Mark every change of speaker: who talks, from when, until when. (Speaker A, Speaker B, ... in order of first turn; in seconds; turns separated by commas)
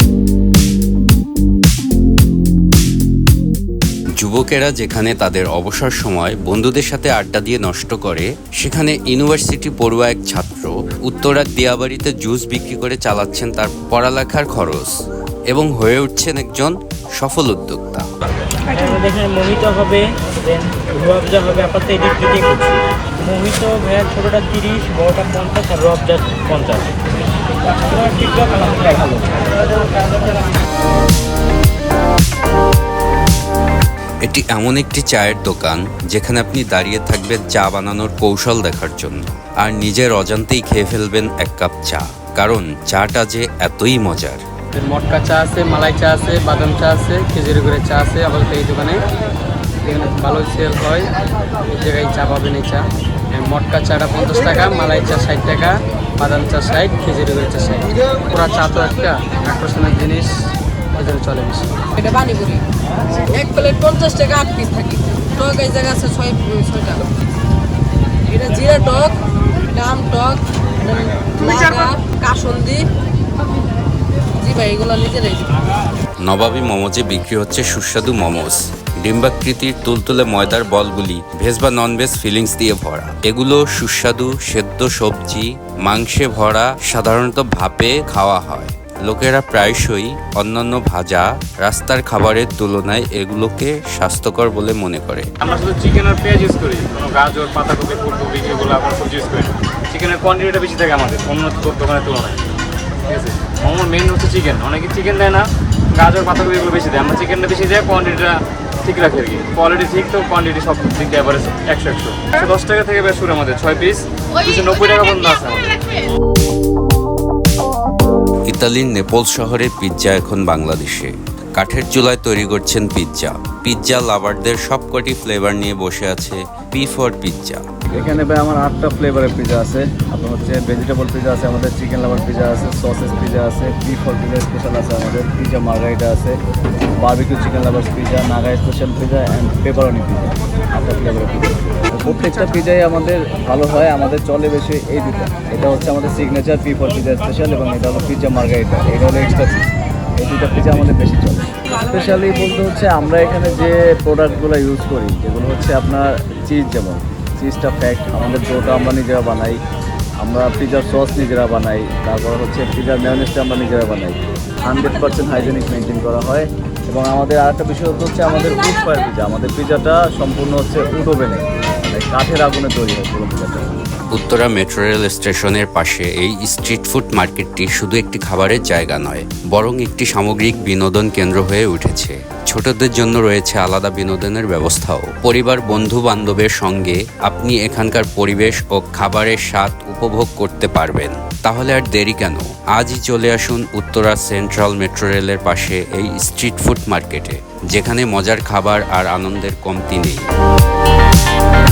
Speaker A: 4.2-14.9, Speaker A: 15.5-18.1, Speaker B: 18.7-26.9, Speaker B: 27.8-29.3, Speaker A: 34.2-44.4, Speaker C: 44.7-49.0, Speaker C: 49.8-51.1, Speaker C: 51.7-60.4, Speaker C: 60.9-61.7, Speaker D: 62.0-62.6, Speaker D: 63.2-67.1, Speaker D: 68.2-72.9, Speaker D: 74.4-75.6, Speaker A: 76.2-95.3, Speaker E: 95.5-99.3, Speaker E: 99.9-102.4, Speaker E: 103.2-108.3, Speaker E: 108.9-115.7, Speaker A: 118.5-127.6, Speaker F: 127.9-136.3, Speaker F: 137.0-159.6, Speaker F: 160.2-173.7, Speaker A: 174.1-200.3